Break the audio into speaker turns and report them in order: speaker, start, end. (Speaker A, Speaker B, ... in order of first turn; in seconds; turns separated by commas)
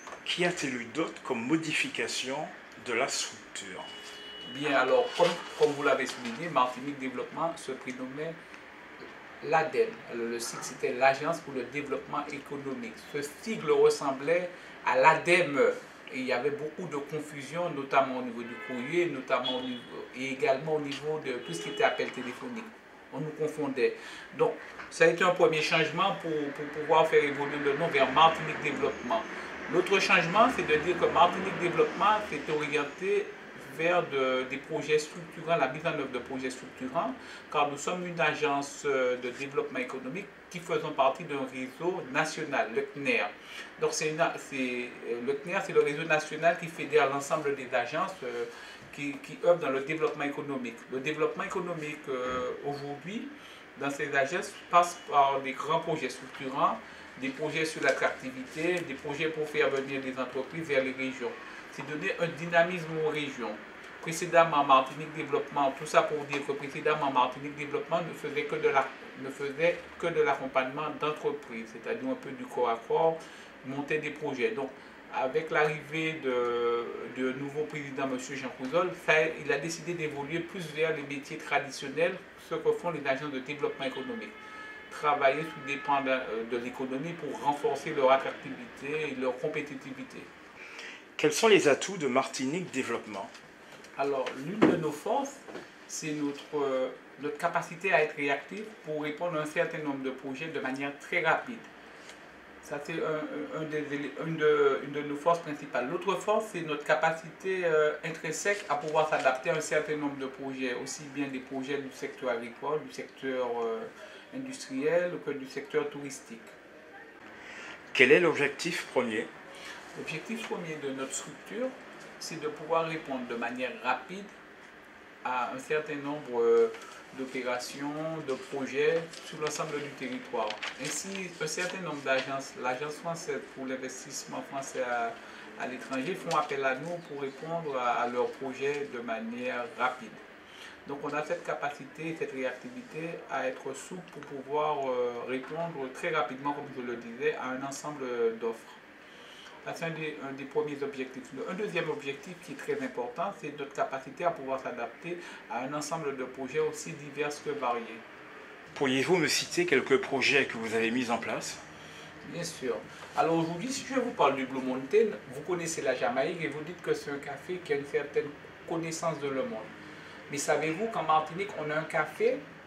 Speaker A: 0.2-3.9, Speaker B: 4.5-8.4, Speaker B: 9.4-84.4, Speaker B: 84.9-90.3, Speaker A: 91.2-93.3, Speaker B: 94.0-101.7, Speaker B: 102.6-116.5, Speaker A: 117.9-119.3, Speaker B: 119.9-124.3, Speaker B: 125.2-140.2, Speaker B: 140.8-148.8, Speaker B: 149.6-158.0, Speaker A: 158.7-161.6, Speaker B: 162.2-169.7, Speaker B: 170.3-172.4